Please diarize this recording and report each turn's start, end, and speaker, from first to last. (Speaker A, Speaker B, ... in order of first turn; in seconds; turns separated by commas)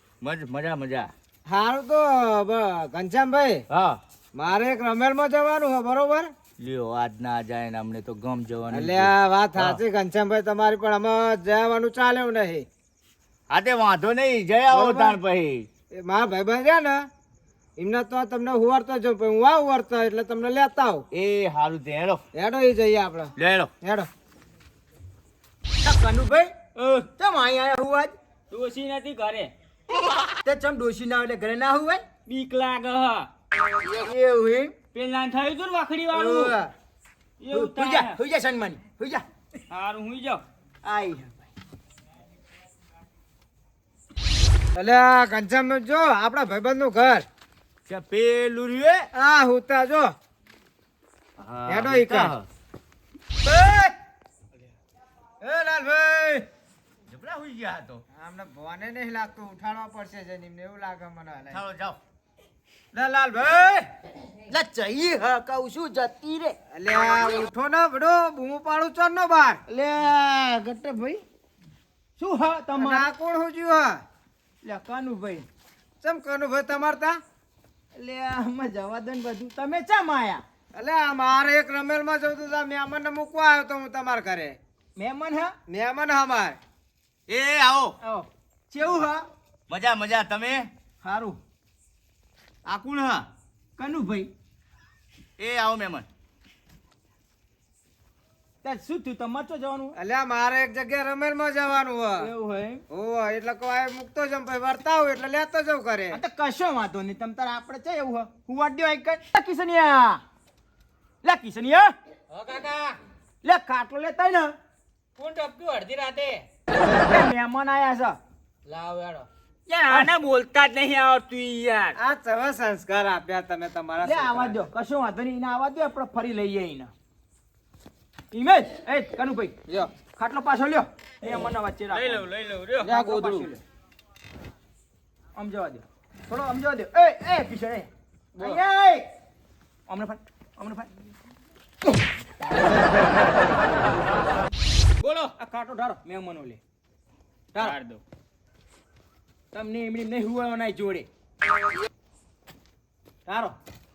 Speaker A: 0.2-1.1, Speaker B: 1.4-3.6, Speaker A: 3.7-4.0, Speaker B: 4.3-6.3, Speaker A: 6.6-9.8, Speaker B: 8.7-12.7, Speaker A: 13.5-15.7, Speaker B: 14.7-15.2, Speaker B: 15.9-17.1, Speaker B: 17.8-21.1, Speaker A: 21.1-22.2, Speaker B: 22.3-24.1, Speaker A: 23.4-23.7, Speaker C: 25.8-26.6, Speaker D: 26.8-27.1, Speaker C: 27.1-28.1, Speaker D: 28.5-29.5, Speaker C: 30.4-32.0, Speaker D: 32.2-33.3, Speaker C: 33.9-34.7, Speaker D: 34.9-36.5, Speaker B: 36.1-36.7, Speaker D: 37.4-38.2, Speaker C: 37.5-39.2, Speaker D: 39.7-40.4, Speaker C: 40.8-41.5, Speaker B: 44.7-47.2, Speaker A: 47.9-49.1, Speaker B: 49.1-50.1, Speaker A: 51.4-52.5, Speaker B: 51.7-52.3, Speaker B: 53.4-53.9, Speaker B: 55.4-56.4, Speaker A: 57.1-58.0, Speaker B: 58.1-61.6, Speaker A: 61.5-62.0, Speaker B: 62.9-63.9, Speaker C: 64.4-66.5, Speaker B: 66.7-69.6, Speaker C: 69.7-71.2, Speaker C: 72.2-73.1, Speaker B: 72.8-74.0, Speaker C: 74.6-75.5, Speaker B: 76.0-77.2, Speaker C: 77.9-80.4, Speaker B: 80.7-84.6, Speaker C: 85.0-85.5, Speaker B: 85.7-86.6, Speaker A: 87.3-88.0, Speaker C: 88.0-89.2, Speaker A: 89.7-90.7, Speaker C: 91.0-91.4, Speaker A: 92.6-93.3, Speaker C: 93.8-94.3, Speaker A: 95.4-96.1, Speaker C: 98.6-100.0, Speaker B: 100.0-102.3, Speaker C: 102.2-102.8, Speaker B: 102.9-106.2, Speaker C: 106.1-110.2, Speaker C: 111.2-111.9, Speaker D: 112.3-112.9, Speaker C: 113.4-114.5, Speaker D: 115.2-116.4, Speaker C: 117.0-118.2, Speaker B: 118.7-119.3, Speaker D: 119.7-122.0, Speaker B: 122.0-124.6, Speaker C: 124.0-126.9, Speaker C: 128.3-129.5, Speaker C: 130.1-132.2, Speaker D: 131.9-133.4, Speaker B: 132.8-133.5, Speaker C: 132.9-133.6, Speaker C: 135.3-139.1, Speaker B: 138.3-138.6, Speaker C: 139.9-140.9, Speaker D: 145.0-145.3, Speaker C: 145.4-146.6, Speaker D: 147.6-148.0, Speaker C: 149.5-151.1, Speaker C: 153.2-153.6